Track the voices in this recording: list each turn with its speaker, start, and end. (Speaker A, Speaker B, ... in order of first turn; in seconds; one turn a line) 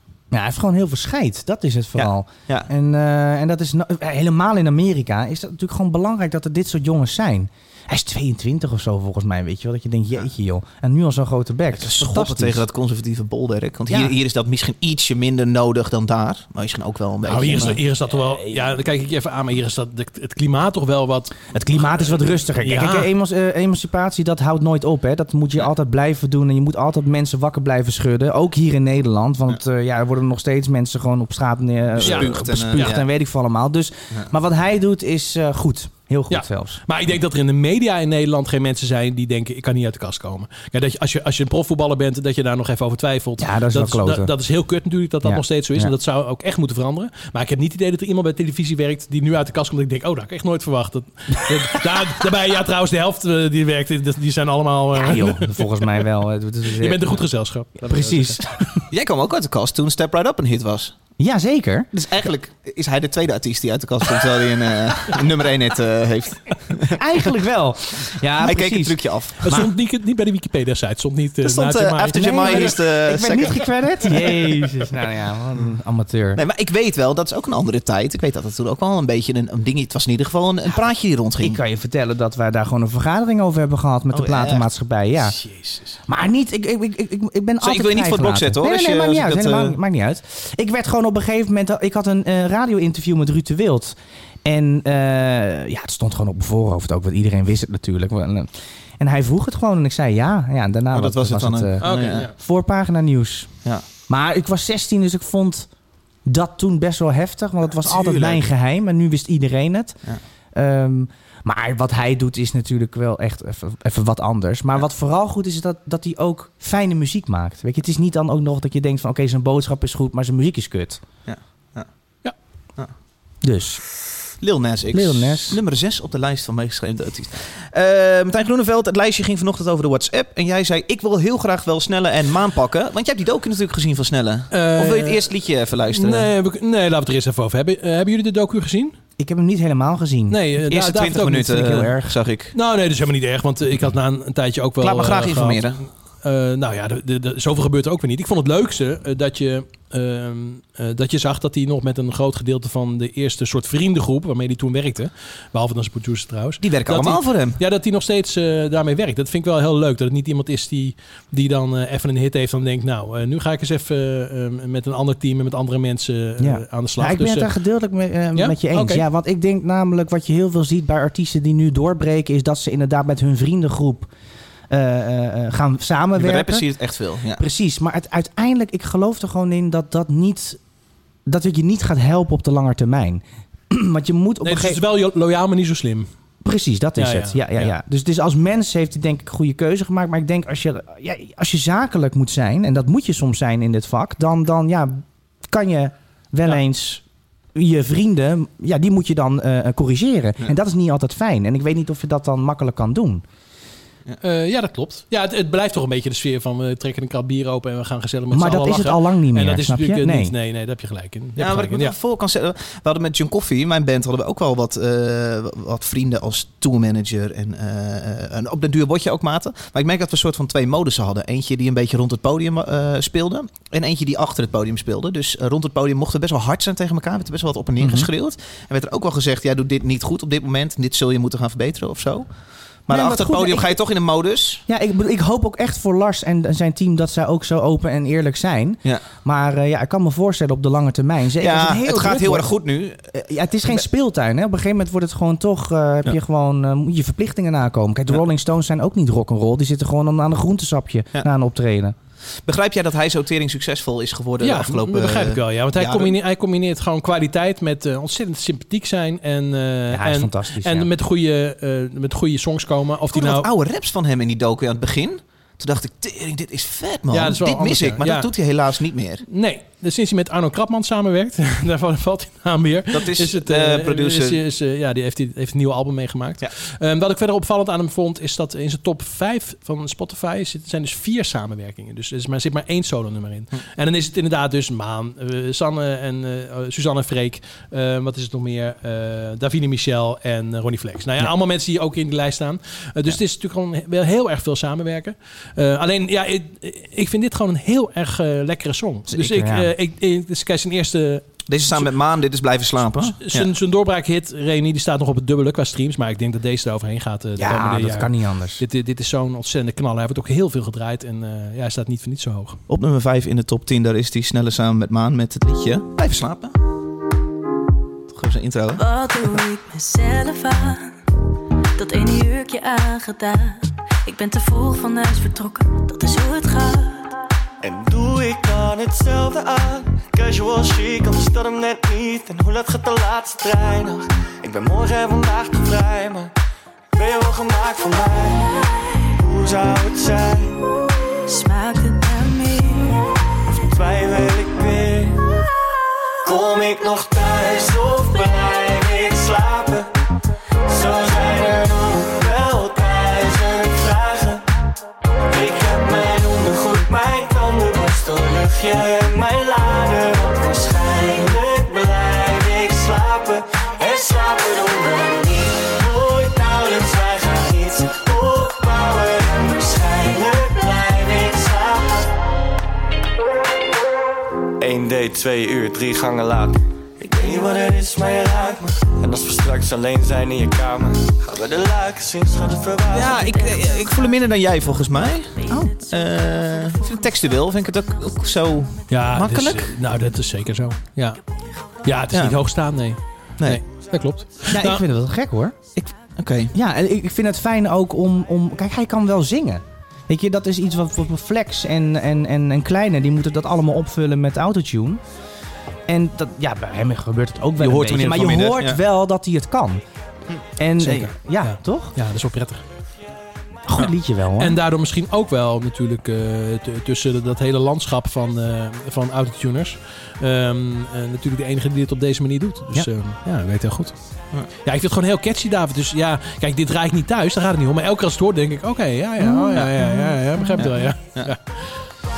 Speaker A: 0.3-12.6
Speaker B: 2.0-2.7
Speaker B: 11.7-17.8
Speaker A: 13.9-14.2
Speaker C: 17.2-21.8
Speaker A: 21.5-36.8
Speaker C: 22.6-23.1
Speaker B: 32.0-33.1
Speaker C: 32.0-33.0
Speaker C: 36.3-55.8
Speaker A: 43.4-44.3
Speaker A: 45.2-45.9
Speaker A: 54.9-57.2
Speaker C: 56.8-58.4
Speaker A: 57.8-58.8
Speaker B: 58.9-61.0
Speaker A: 61.2-61.9
Speaker B: 61.9-67.0
Speaker A: 66.9-69.7
Speaker B: 68.4-69.6
Speaker C: 69.4-72.8
Speaker B: 71.4-73.7
Speaker A: 72.2-76.4
Speaker B: 76.3-81.6
Speaker A: 81.4-85.4
Speaker B: 84.1-84.7
Speaker C: 85.2-86.0
Speaker A: 86.1-103.5
Speaker B: 87.6-89.8
Speaker B: 100.9-102.3
Speaker C: 101.8-102.3
Speaker A: 104.1-105.7
Speaker A: 106.2-110.0
Speaker B: 107.9-108.4
Speaker A: 110.5-121.0
Speaker B: 121.3-121.9
Speaker A: 123.4-123.8
Speaker B: 124.4-136.3
Speaker A: 124.9-125.6
Speaker C: 134.5-135.3
Speaker C: 135.9-139.0
Speaker A: 139.2-140.5
Speaker C: 140.3-141.7
Speaker B: 140.7-142.5
Speaker A: 141.1-142.2
Speaker C: 142.5-145.6
Speaker B: 144.8-145.8
Speaker C: 146.2-167.5
Speaker B: 156.6-157.6
Speaker A: 166.4-174.1
Speaker C: 168.3-169.1
Speaker A: 174.7-176.7
Speaker B: 176.2-177.4
Speaker A: 177.3-180.6
Speaker A: 181.3-184.8
Speaker C: 184.4-186.1
Speaker A: 186.4-203.2
Speaker C: 187.0-187.7
Speaker C: 204.2-212.0
Speaker A: 208.3-210.3
Speaker B: 211.4-232.3
Speaker A: 227.8-228.1
Speaker B: 232.9-234.6
Speaker A: 232.9-233.8
Speaker A: 234.7-242.5
Speaker B: 241.4-243.1
Speaker A: 243.1-251.9
Speaker B: 252.4-256.1
Speaker C: 254.4-263.5
Speaker A: 259.9-260.9
Speaker B: 263.1-269.2
Speaker C: 267.1-268.3
Speaker C: 269.3-301.9
Speaker B: 272.9-274.4
Speaker A: 299.1-299.7
Speaker B: 301.5-303.5
Speaker C: 303.2-312.6
Speaker A: 307.4-308.6
Speaker B: 312.7-316.5
Speaker B: 318.1-318.8
Speaker D: 318.8-320.9
Speaker D: 321.8-327.0
Speaker E: 327.6-336.3
Speaker E: 336.9-338.5
Speaker E: 339.1-340.6
Speaker D: 341.3-343.0
Speaker E: 343.6-345.2
Speaker E: 346.2-349.9
Speaker E: 350.7-354.4
Speaker E: 355.3-372.1
Speaker E: 374.6-383.3
Speaker B: 382.9-389.7
Speaker A: 385.5-385.7
Speaker C: 388.9-391.2
Speaker C: 391.8-394.9
Speaker B: 392.1-392.4
Speaker A: 394.5-395.6
Speaker B: 395.8-396.5
Speaker A: 396.5-405.0
Speaker A: 405.9-409.8
Speaker B: 407.6-408.8
Speaker A: 410.6-411.9
Speaker C: 410.8-412.6
Speaker A: 413.7-414.6
Speaker C: 414.4-423.9
Speaker C: 424.6-431.8
Speaker A: 429.2-430.7
Speaker B: 430.6-431.3